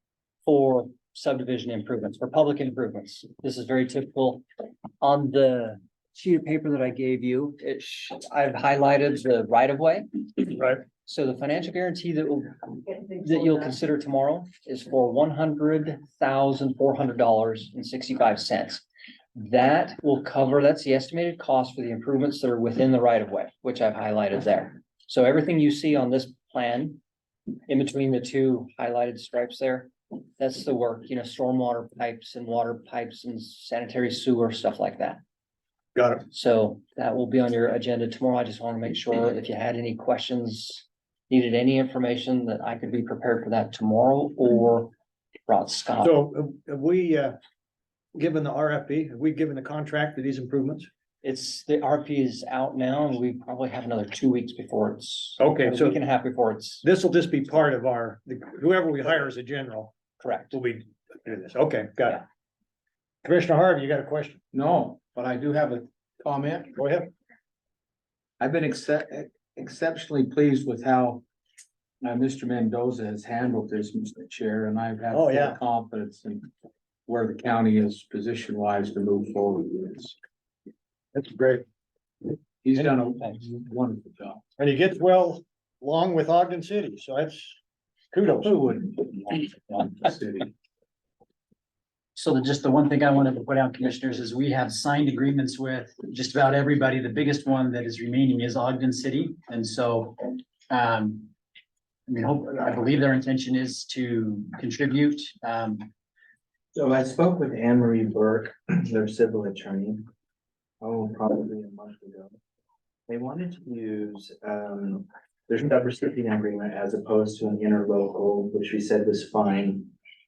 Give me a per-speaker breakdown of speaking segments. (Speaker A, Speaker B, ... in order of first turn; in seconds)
Speaker A: 0.5-4.4, 5.0-18.8, 19.4-27.0, 27.7-35.2, 36.3-44.9, 45.5-46.1, 51.2-56.8, 60.2-60.5
Speaker B: 36.0-36.2, 46.0-47.4, 48.1-50.9, 55.4-56.0, 56.8-59.9, 60.5-62.2, 63.2-64.4, 66.8-67.1, 75.1-75.6, 81.1-81.6, 84.6-87.6, 88.1-88.6
Speaker C: 64.5-66.8, 68.4-71.2, 72.0-76.5, 77.1-80.2, 82.6-84.4, 88.4-90.5
Speaker D: 92.2-101.3, 102.1-105.9
Speaker E: 106.8-110.1, 110.8-112.3, 113.1-119.9